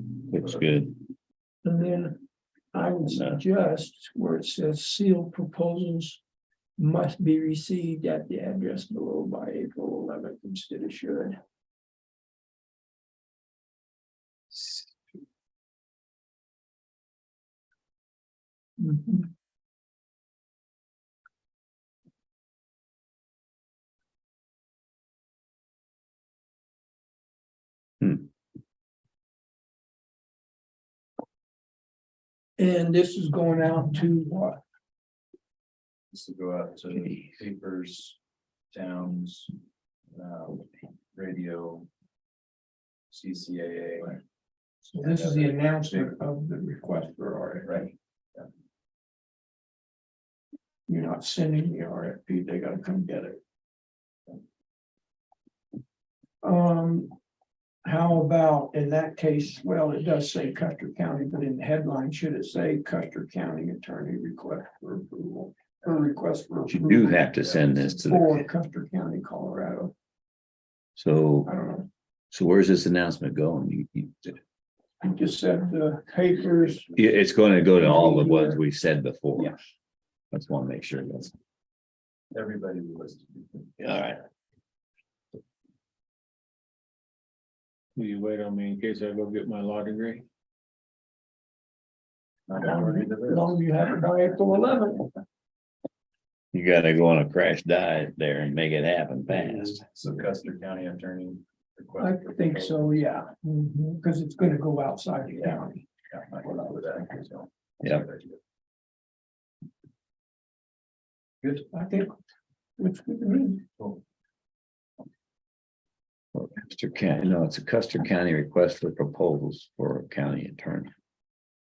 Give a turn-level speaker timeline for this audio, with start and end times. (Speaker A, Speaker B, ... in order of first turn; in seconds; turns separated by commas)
Speaker A: 0.3-0.9, Speaker B: 1.6-2.2, Speaker B: 2.7-6.2, Speaker A: 3.1-3.4, Speaker B: 6.8-11.4, Speaker B: 18.8-19.3, Speaker B: 32.6-34.6, Speaker C: 36.1-38.2, Speaker C: 38.7-39.5, Speaker C: 40.1-41.9, Speaker C: 43.1-44.2, Speaker B: 44.9-47.8, Speaker C: 45.0-46.2, Speaker C: 47.6-48.5, Speaker B: 50.9-53.4, Speaker B: 56.4-57.1, Speaker B: 57.8-67.2, Speaker A: 66.7-68.4, Speaker B: 68.0-69.9, Speaker A: 71.0-71.5, Speaker B: 71.5-71.9, Speaker A: 72.3-74.4, Speaker B: 75.0-78.6, Speaker A: 77.0-79.6, Speaker A: 80.3-81.3, Speaker C: 82.3-83.7, Speaker A: 83.8-84.2, Speaker D: 88.0-90.2, Speaker C: 92.5-93.6, Speaker B: 92.6-95.1, Speaker A: 96.5-99.9, Speaker C: 99.8-103.0, Speaker B: 102.0-105.9, Speaker C: 106.1-108.4, Speaker B: 106.5-106.8, Speaker C: 111.4-111.7, Speaker B: 111.7-112.1, Speaker B: 112.8-113.6, Speaker A: 116.3-120.9